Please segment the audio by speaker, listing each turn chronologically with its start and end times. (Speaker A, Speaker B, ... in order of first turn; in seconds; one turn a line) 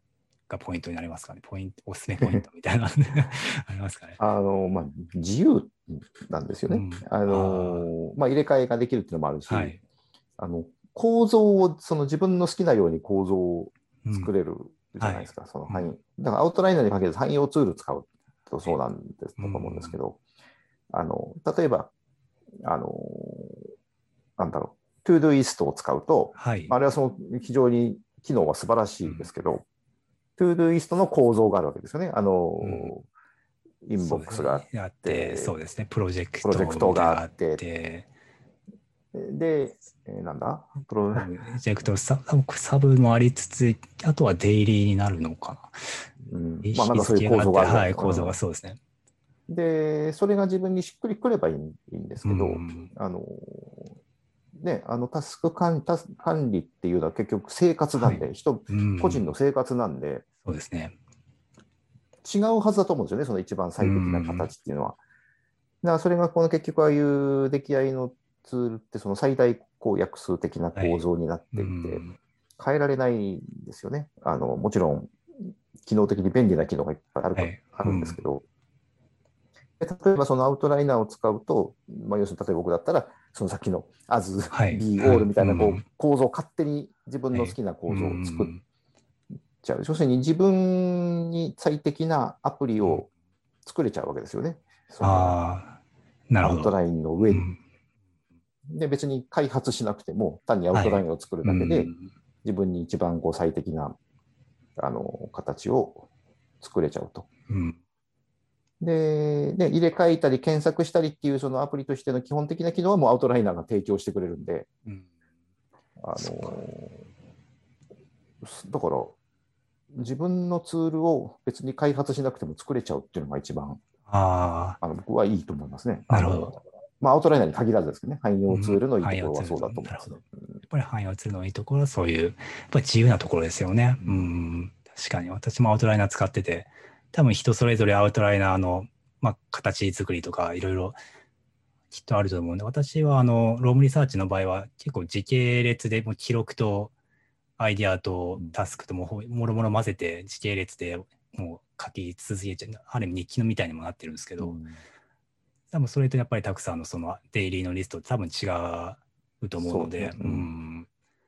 Speaker A: 0.5-4.2
Speaker B: 4.2-9.7
Speaker A: 6.7-7.9
Speaker A: 9.5-9.8
Speaker B: 10.4-20.2
Speaker A: 14.0-14.3
Speaker A: 15.0-15.9
Speaker A: 19.4-20.0
Speaker B: 20.9-21.9
Speaker B: 22.6-23.7
Speaker B: 24.4-29.6
Speaker A: 26.4-26.7
Speaker A: 29.0-29.3
Speaker B: 30.4-33.1
Speaker A: 32.6-32.9
Speaker B: 33.8-35.5
Speaker A: 34.0-38.1
Speaker B: 36.4-37.6
Speaker B: 39.1-41.3
Speaker A: 41.1-46.0
Speaker B: 46.2-48.4
Speaker A: 46.6-48.8
Speaker B: 49.5-53.9
Speaker A: 52.2-52.9
Speaker B: 54.5-60.2
Speaker A: 58.0-59.3
Speaker A: 60.4-60.9
Speaker B: 62.2-65.0
Speaker A: 63.8-64.5
Speaker B: 65.8-72.0
Speaker A: 70.7-71.0
Speaker A: 71.5-72.2
Speaker B: 72.6-78.4
Speaker A: 77.3-78.2
Speaker B: 79.8-88.5
Speaker A: 84.5-85.8
Speaker A: 87.3-88.6
Speaker B: 89.6-93.1
Speaker B: 93.6-95.4
Speaker A: 95.0-95.8
Speaker A: 96.3-96.8
Speaker B: 96.4-97.5
Speaker A: 97.3-97.6
Speaker B: 98.7-101.9
Speaker A: 100.7-102.1
Speaker B: 102.4-104.0
Speaker B: 104.8-106.1
Speaker B: 106.6-107.3
Speaker A: 107.5-107.8
Speaker B: 108.8-114.7
Speaker B: 116.0-117.0
Speaker A: 116.2-116.5
Speaker B: 118.4-119.2
Speaker B: 119.9-123.8
Speaker A: 124.1-124.8
Speaker B: 124.8-130.2
Speaker A: 126.1-126.5
Speaker A: 128.5-141.0
Speaker B: 134.0-134.3
Speaker A: 141.9-146.9
Speaker A: 147.6-154.6
Speaker B: 154.4-154.8
Speaker A: 155.7-160.9
Speaker B: 159.6-160.5